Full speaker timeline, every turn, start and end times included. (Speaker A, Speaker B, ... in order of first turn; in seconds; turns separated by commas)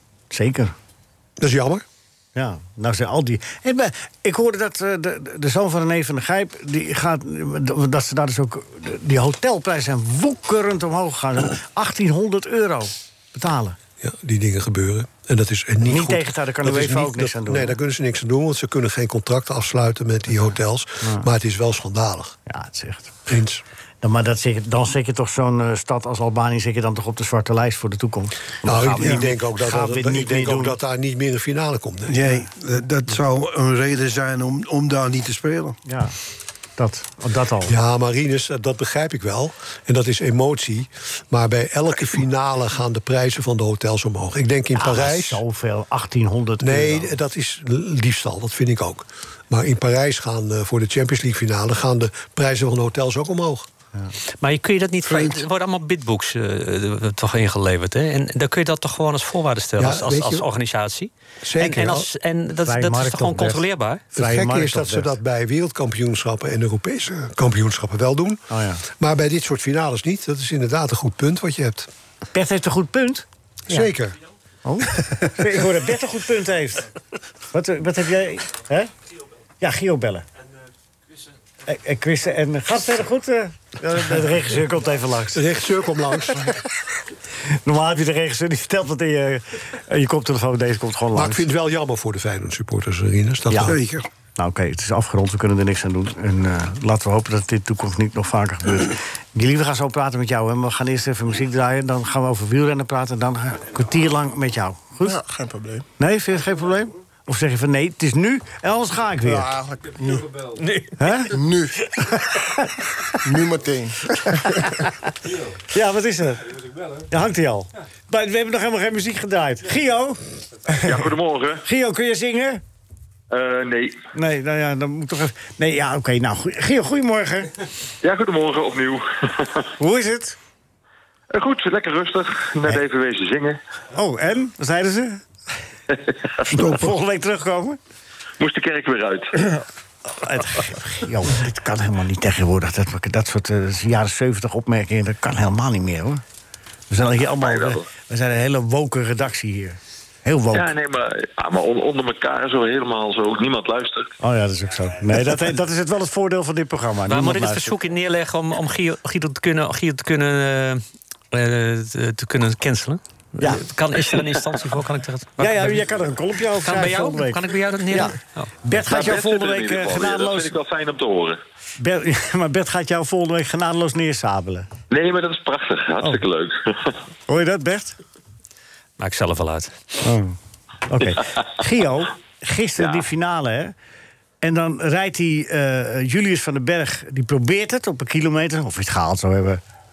Speaker A: 0.3-0.7, Speaker B: 1.4-1.8, Speaker A: 2.3-13.8, Speaker B: 14.0-22.4, Speaker A: 15.8-17.7, Speaker A: 22.5-23.3, Speaker B: 23.3-23.6, Speaker A: 24.0-30.8, Speaker B: 28.6-32.2, Speaker C: 32.1-35.8, Speaker A: 35.9-36.1, Speaker A: 36.8-37.7, Speaker B: 37.6-45.4, Speaker A: 44.8-47.1, Speaker B: 46.6-53.6, Speaker D: 54.4-64.0, Speaker C: 55.0-55.4, Speaker B: 59.8-60.5, Speaker B: 61.4-62.1, Speaker A: 62.6-63.6, Speaker A: 64.1-65.1, Speaker B: 64.2-71.9, Speaker A: 68.5-68.8, Speaker A: 72.3-73.2, Speaker B: 73.7-74.2, Speaker A: 74.6-76.9, Speaker A: 77.5-78.9, Speaker A: 79.6-80.2, Speaker A: 81.7-85.4, Speaker B: 85.3-86.6, Speaker A: 87.5-91.4, Speaker B: 91.1-93.8, Speaker C: 93.6-94.0, Speaker A: 94.4-105.2, Speaker E: 105.0-105.8, Speaker A: 106.0-109.5, Speaker E: 109.2-110.4, Speaker A: 111.0-111.3, Speaker E: 111.3-111.7, Speaker A: 112.1-112.7, Speaker E: 113.2-114.7, Speaker A: 115.7-120.2, Speaker F: 120.8-121.6, Speaker A: 121.6-122.6, Speaker F: 123.3-124.0, Speaker A: 124.1-127.5, Speaker F: 128.0-129.7, Speaker A: 129.8-130.4, Speaker F: 131.3-133.6, Speaker A: 133.9-135.2, Speaker A: 136.5-137.8, Speaker C: 136.5-136.9, Speaker F: 138.4-139.5, Speaker A: 140.1-146.2, Speaker A: 146.9-150.7, Speaker F: 147.3-147.8, Speaker F: 150.5-154.1, Speaker A: 154.2-157.7, Speaker D: 157.1-165.8, Speaker A: 163.4-163.6, Speaker A: 165.4-170.5, Speaker D: 166.6-168.5, Speaker F: 168.8-171.4, Speaker A: 171.8-174.7, Speaker F: 174.9-176.9, Speaker A: 177.3-178.0, Speaker D: 179.0-179.7, Speaker A: 180.0-180.3, Speaker A: 180.9-183.7, Speaker F: 182.8-183.1, Speaker A: 184.4-189.6